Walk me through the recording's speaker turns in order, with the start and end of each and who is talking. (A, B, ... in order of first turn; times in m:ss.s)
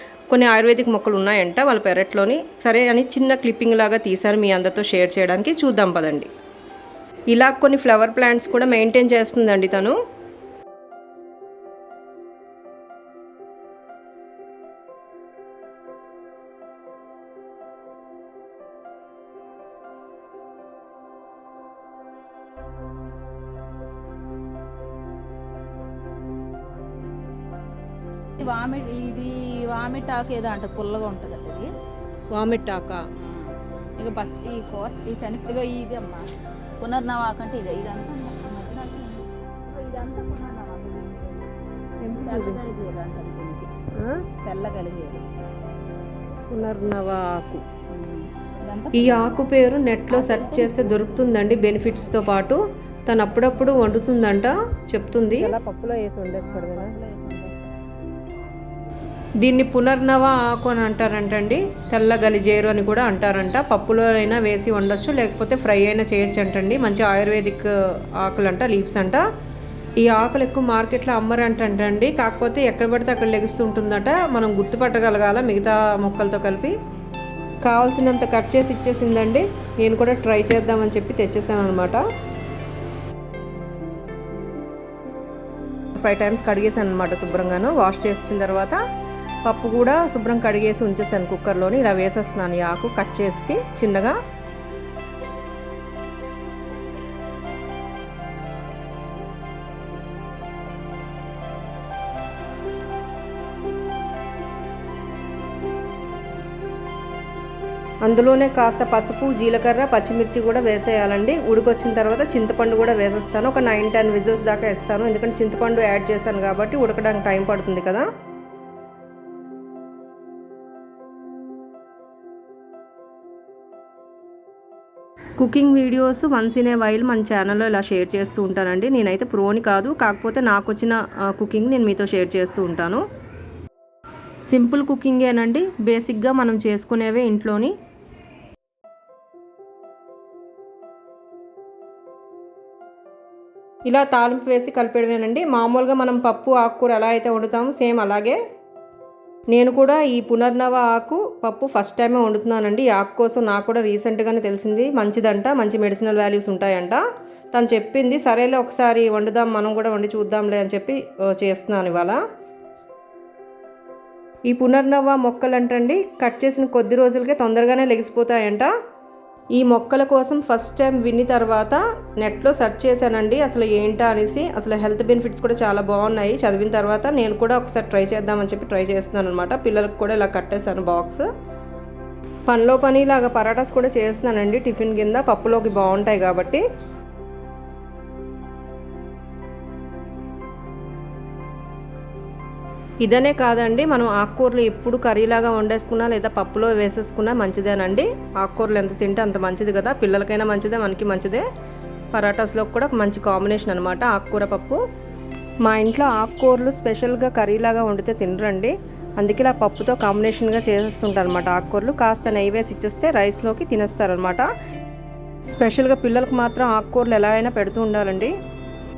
0:00.3-0:06.3 A
0:07.3-0:10.0 A
0:28.4-0:31.7 B
0:32.3-0:33.0 A
0:33.2-0:36.3 B
0:36.8-0:41.5 B
0:42.0-0:42.6 A
0:42.1-0:43.7 B
0:44.0-0:44.2 A
0:44.4-0:45.2 B
0:46.5-0:47.6 A
0:47.9-0:49.5 B
0:48.9-0:56.9 A
0:50.1-0:51.4 B
0:56.4-0:57.7 B
0:59.4-1:09.2 A
1:10.0-1:16.7 A
1:17.6-1:22.0 A
1:26.0-1:28.8 A
1:29.4-1:34.2 A
1:48.0-1:58.1 A
2:05.4-2:13.0 A
2:14.5-2:17.7 A
2:23.9-2:28.4 A
2:29.5-2:42.2 A
2:44.5-2:48.7 A
2:49.6-3:01.3 A
3:02.5-3:06.6 A
3:13.0-3:21.4 A
3:22.1-3:24.8 A
3:25.6-3:34.5 A
3:35.5-3:38.4 A